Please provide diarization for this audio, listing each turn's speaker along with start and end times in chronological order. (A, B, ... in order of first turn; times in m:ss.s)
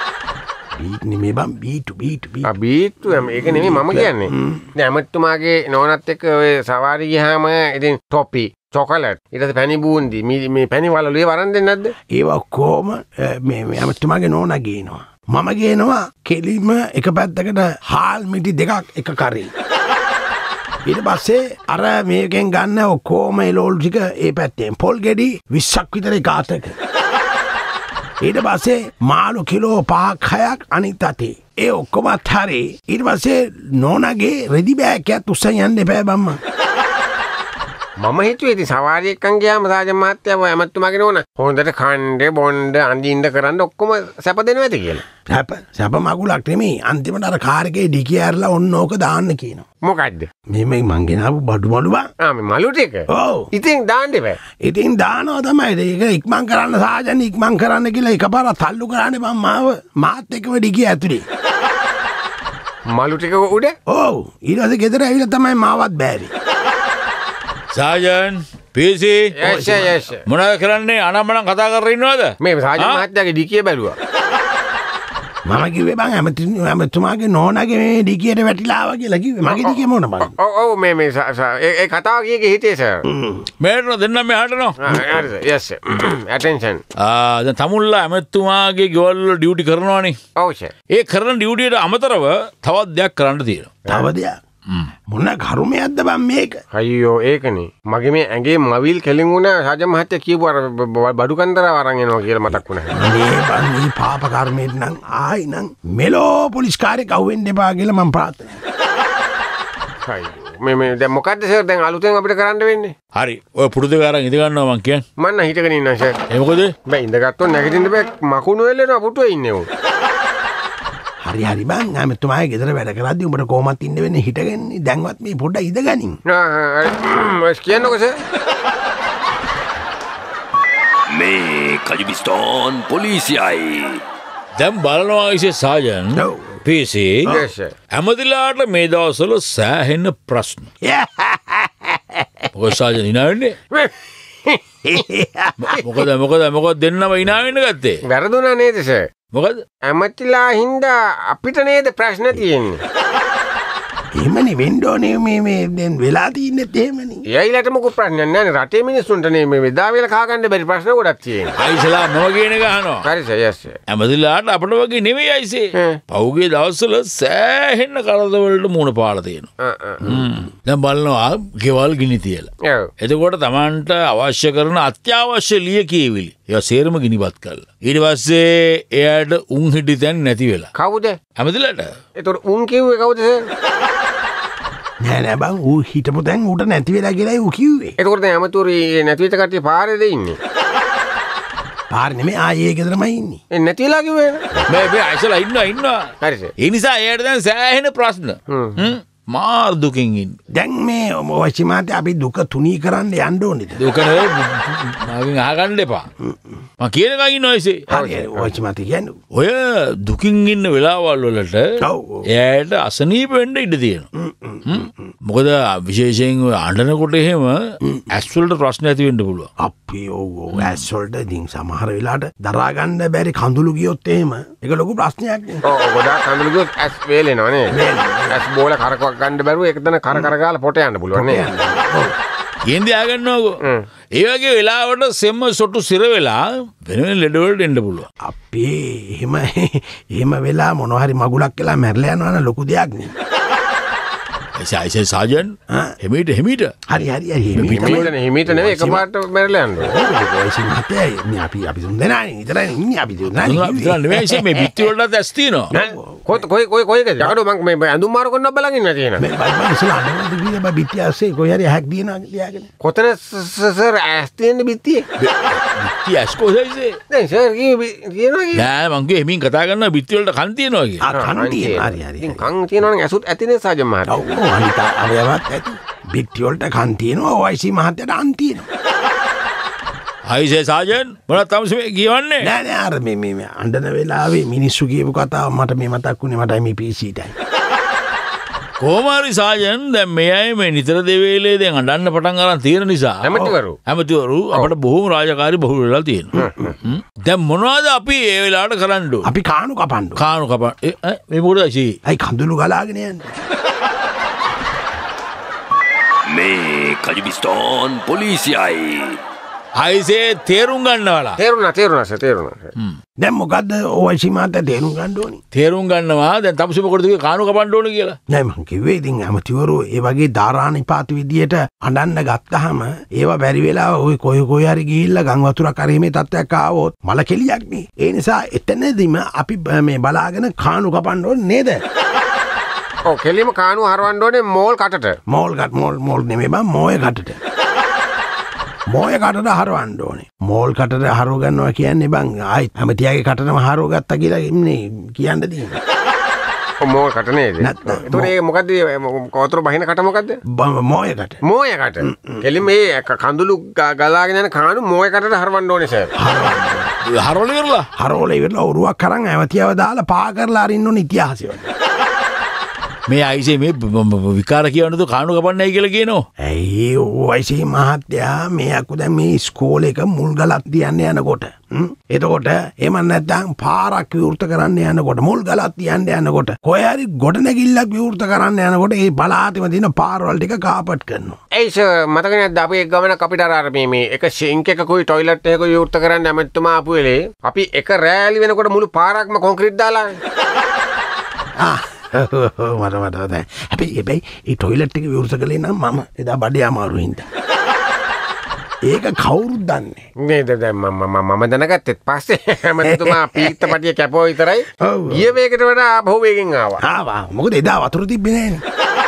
0:00.7-0:02.5 A
0:02.4-0:11.9 B
0:03.1-0:04.7 A
0:12.1-0:19.5 A
0:20.8-0:26.8 A
0:28.2-0:36.4 A
0:38.0-0:45.0 B
0:45.3-0:49.6 A
0:49.8-0:50.3 B
0:50.5-0:52.0 A
0:52.3-0:54.4 B
0:53.1-0:53.5 A
0:54.6-1:01.2 A
1:03.0-1:03.7 B
1:03.9-1:06.3 A
1:07.7-1:09.3 C
1:09.4-1:10.2 B
1:09.4-1:10.1 A
1:10.3-1:13.0 C
1:12.4-1:14.0 B
1:15.4-1:20.3 A
1:19.4-1:23.0 B
1:23.1-1:23.4 A
1:23.6-1:24.8 C
1:24.8-1:26.8 B
1:24.9-1:25.2 A
1:27.0-1:30.2 C
1:30.4-1:30.7 B
1:30.9-1:33.7 C
1:33.9-1:34.3 A
1:35.1-1:36.6 A
1:36.7-1:42.9 B
1:42.6-1:48.6 A
1:50.1-1:52.9 B
1:53.2-1:55.0 C
1:55.2-1:56.2 B
1:56.3-1:56.7 C
1:56.9-1:59.7 B
2:01.2-2:06.2 A
2:06.3-2:08.1 B
2:11.1-2:14.0 D
2:14.6-2:17.3 C
2:16.1-2:16.6 A
2:17.3-2:17.7 B
2:17.9-2:20.7 C
2:20.8-2:22.4 A
2:22.5-2:23.5 C
2:23.7-2:25.0 B
2:24.8-2:25.6 A
2:25.6-2:28.0 C
2:28.1-2:29.0 B
2:29.3-2:29.6 C
2:29.9-2:32.8 B
2:34.2-2:37.2 A
2:37.4-2:41.6 B
2:41.6-2:43.0 C
2:43.0-2:43.8 B
2:43.9-2:49.5 C
2:49.7-2:50.0 B
2:50.0-2:52.5 C
2:53.0-3:00.7 C
3:00.8-3:01.2 B
3:01.4-3:01.9 C
3:02.2-3:03.4 B
3:05.0-3:08.0 A
3:08.0-3:10.4 B
3:11.9-3:13.4 A
3:13.6-3:14.7 B
3:14.7-3:16.0 C
3:16.2-3:16.5 B
3:16.6-3:20.4 C
3:18.5-3:18.9 B
3:20.6-3:23.8 A
3:23.8-3:26.0 C
3:26.2-3:26.6 A
3:26.8-3:27.8 C
3:27.9-3:29.2 A
3:27.9-3:28.5 B
3:29.4-3:31.6 C
3:31.8-3:32.2 A
3:32.4-3:34.0 C
3:34.2-3:35.1 A
3:34.7-3:37.6 C
3:38.1-3:39.5 C
3:39.6-3:45.6 A
3:40.5-3:40.8 C
3:45.7-3:51.5 B
3:47.7-3:48.4 A
3:51.1-3:52.1 A
3:52.7-3:53.5 C
3:54.2-3:58.1 C
3:58.2-4:03.1 A
4:04.6-4:06.7 C
4:06.9-4:09.0 A
4:07.6-4:08.1 C
4:07.6-4:09.9 B
4:09.8-4:14.2 A
4:13.3-4:15.7 C
4:15.7-4:16.4 A
4:15.7-4:19.2 B
4:19.2-4:22.7 A
4:22.8-4:25.0 B
4:25.2-4:26.9 C
4:27.1-4:28.7 B
4:28.6-4:31.0 C
4:31.0-4:32.5 A
4:31.2-4:34.2 B
4:34.1-4:38.7 A
4:40.3-4:42.5 C
4:42.4-4:47.3 A
4:48.8-4:53.3 C
4:53.2-4:53.8 B
4:53.9-4:59.2 C
4:56.4-4:56.7 B
4:59.2-5:00.2 A
5:00.2-5:01.9 C
5:02.0-5:03.3 A
5:06.2-5:09.1 D
5:09.8-5:11.4 C
5:11.4-5:12.7 B
5:13.2-5:15.4 A
5:15.5-5:18.2 C
5:18.3-5:31.8 A
5:33.1-5:35.2 B
5:35.3-5:37.4 A
5:38.9-5:45.8 A
5:46.8-5:50.4 B
5:47.6-5:48.3 A
5:50.5-5:51.4 A
5:51.5-5:56.1 B
5:52.0-5:52.6 A
5:56.2-5:56.9 A
5:57.2-5:57.8 C
5:58.0-6:01.7 A
6:03.1-6:06.2 C
6:06.4-6:21.4 A
6:21.6-6:30.2 B
6:31.6-6:37.3 A
6:38.9-6:40.0 A
6:40.2-6:46.8 B
6:42.8-6:43.7 A
6:44.8-6:45.3 A
6:46.8-6:48.6 A